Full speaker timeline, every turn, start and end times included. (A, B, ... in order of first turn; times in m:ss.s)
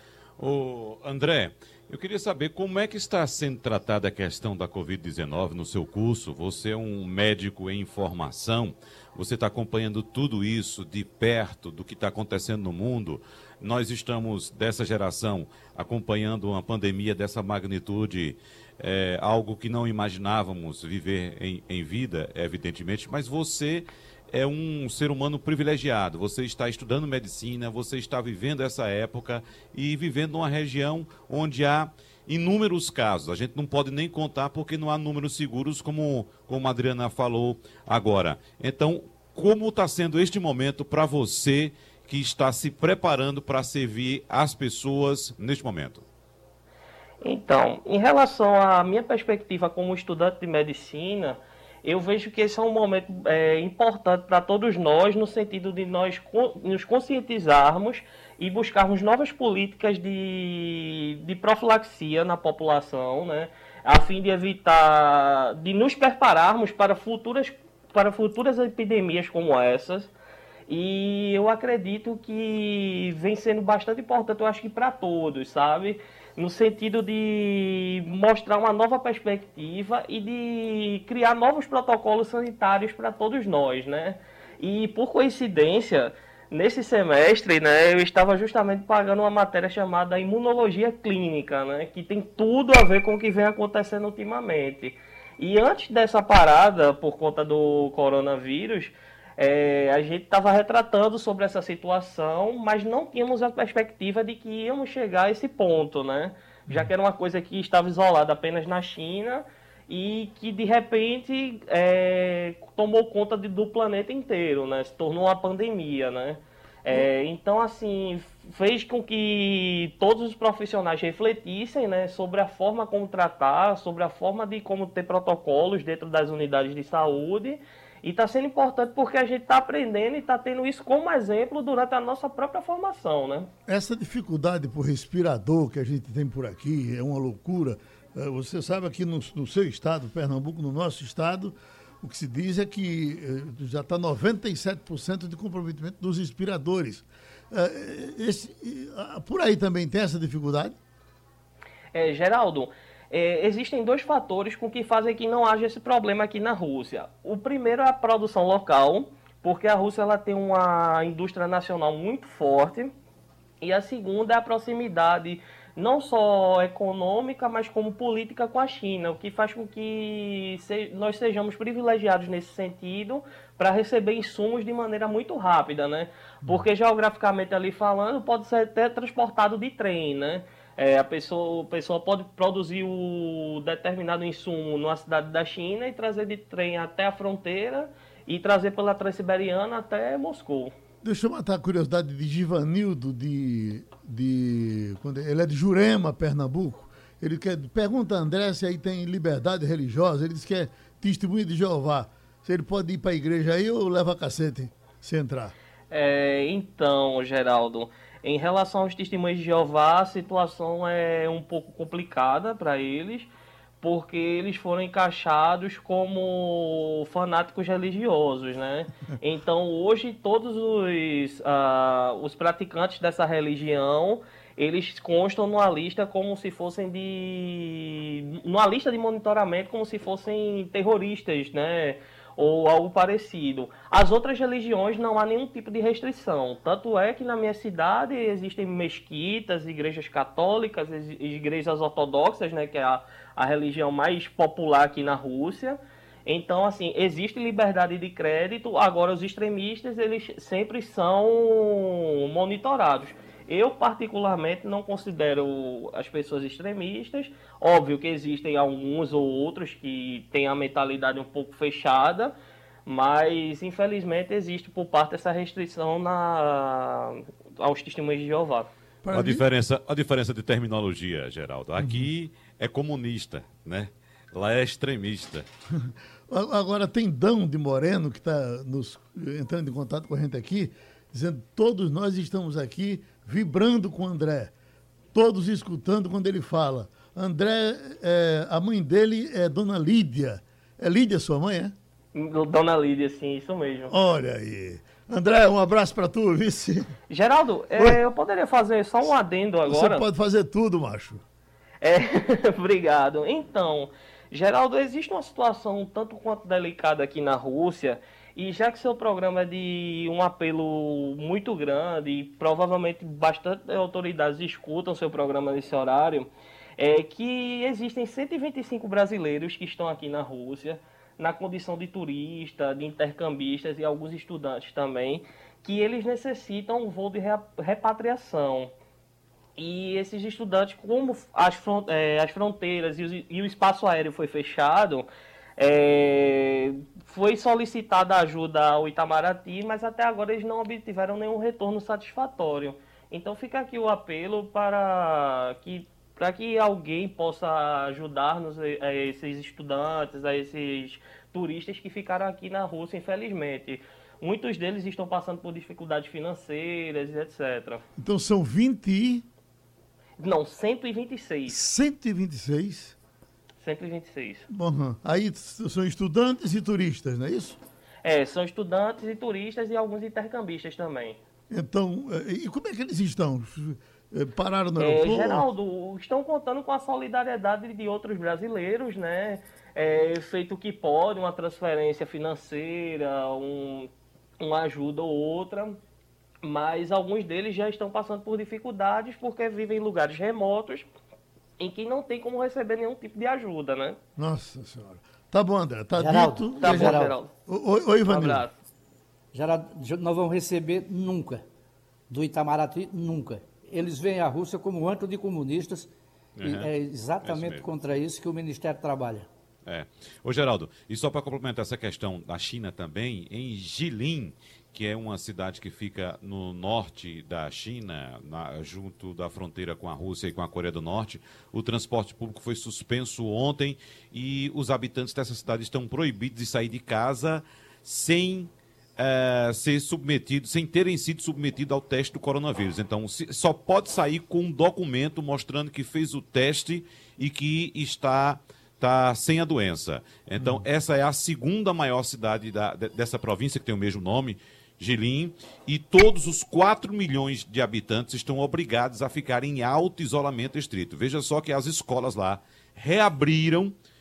0:00.4-0:46.0 A
0:47.2-1:10.1 B
1:10.7-2:13.5 B
2:13.7-2:30.8 C
2:31.9-2:42.9 B
2:43.6-3:10.7 B
3:11.0-3:25.5 C
3:25.9-3:33.3 B
3:33.8-4:22.4 B
4:22.9-4:28.7 B
4:29.0-4:29.4 C
4:29.1-4:35.5 A
4:31.8-4:32.1 C
4:35.8-4:44.5 C
4:45.1-4:51.8 C
4:52.1-4:54.0 B
4:53.9-4:56.9 C
4:57.1-5:00.0 B
4:59.7-5:01.2 C
5:01.8-5:28.7 B
5:29.6-5:35.1 B
5:35.6-5:57.8 B
5:58.0-5:59.2 C
6:00.2-6:01.6 B
6:01.5-6:03.0 C
6:03.6-6:04.5 B
6:04.5-6:07.6 C
6:08.0-6:11.2 B
6:11.5-6:15.5 C
6:14.8-6:25.8 B
6:26.4-6:30.9 B
6:31.6-6:34.0 B
6:34.2-6:38.5 C
6:35.9-6:37.2 D
6:36.6-6:37.3 B
6:38.1-6:38.5 B
6:39.3-6:41.4 D
6:42.1-6:45.9 D
6:46.4-6:46.7 A
6:46.4-6:49.3 D
6:47.2-6:47.7 A
6:49.7-7:33.7 A
7:20.4-7:20.7 C